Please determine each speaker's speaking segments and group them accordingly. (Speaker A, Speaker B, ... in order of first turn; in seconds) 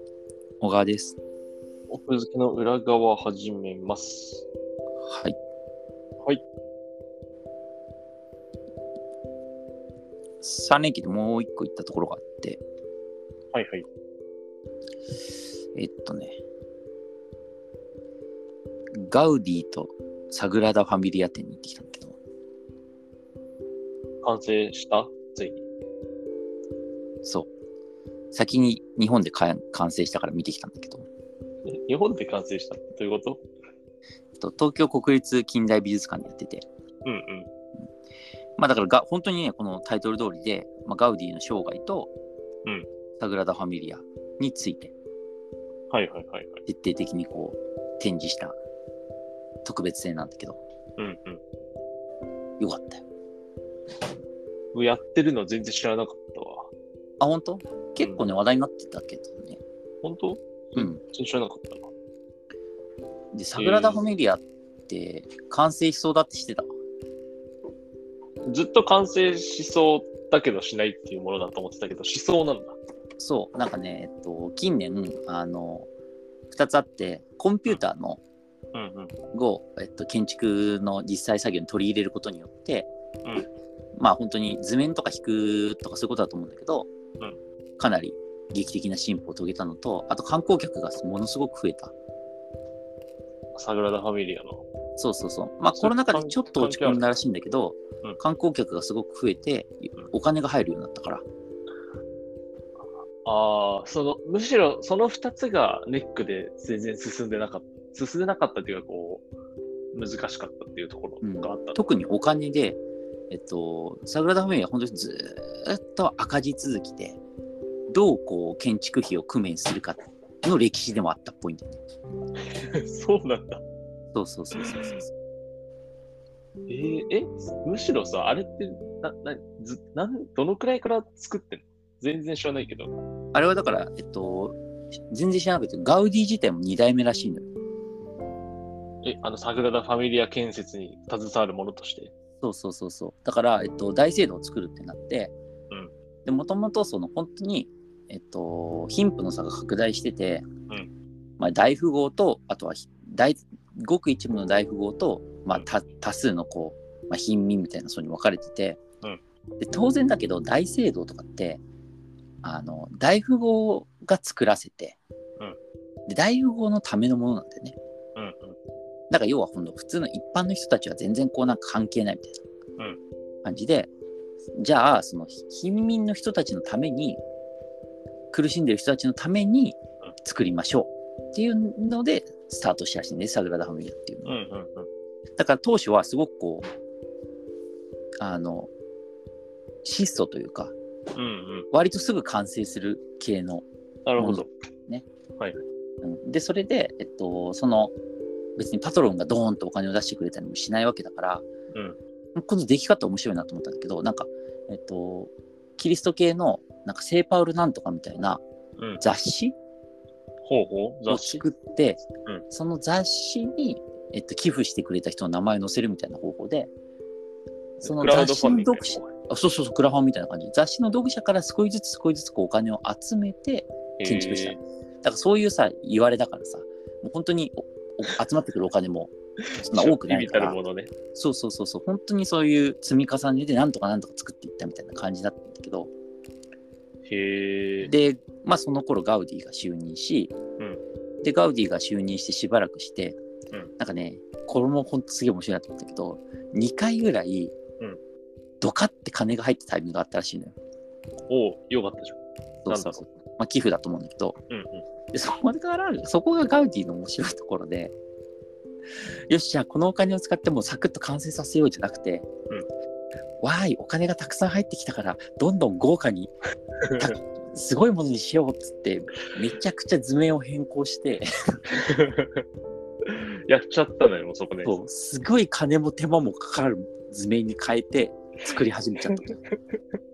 Speaker A: 0.6-1.2, 5.0-5.4, 10.4-12.6, 15.7-16.4, 18.9-22.2, 27.2-27.5, 28.3-31.0, 34.4-36.6, 38.6-42.1, 43.2-44.9, 46.6-48.6, 49.6-50.6, 52.6-53.0, 57.2-59.6, 60.7-61.0, 63.3-66.7, 73.2-75.9, 76.5-78.2, 79.3-82.9, 84.0-86.9, 87.8-91.9, 95.0-101.2, 111.2-117.2, 117.9-121.8, 124.1-125.1, 133.3-134.6, 135.1-137.5, 142.4-145.3, 146.2-150.4, 151.4-158.8, 159.6-161.6, 162.4-165.0, 166.1-167.8, 169.1-172.4, 173.4-173.9, 174.6-177.2, 178.3-184.4, 185.4-186.7, 188.2-188.7, 189.8-190.7, 191.7-193.6, 194.2-195.1, 196.0-197.9, 198.6-201.4, 202.3-208.4, 209.0-209.5, 211.1-216.7, 217.8-230.6, 231.1-235.9, 237.8-240.3, 241.2-243.2, 243.8-247.5, 248.6-250.5, 252.6-254.4, 255.1-257.9, 259.3-262.3, 263.4-266.3, 267.0-271.6, 274.6-279.4
Speaker B: 1.9-4.5, 13.5-13.9, 24.2-25.6, 31.6-33.4, 37.0-37.5, 45.9-46.6, 51.0-51.4, 54.7-56.7, 58.0-58.3, 60.0-61.9, 63.5-64.0, 68.5-72.8, 78.7-79.1, 93.5-94.6, 95.7-97.1, 103.2-109.2, 109.9-111.9, 122.5-123.6, 124.6-125.0, 126.7-132.9, 139.0-142.1, 168.2-168.6, 184.2-184.9, 191.1-191.7, 194.1-194.5, 201.7-202.0, 208.8-209.0, 210.4-211.4, 217.8-219.1, 224.0-224.6, 229.6-230.9, 237.1-237.9, 251.3-253.1, 254.5-254.8, 271.7-272.4, 273.1-274.8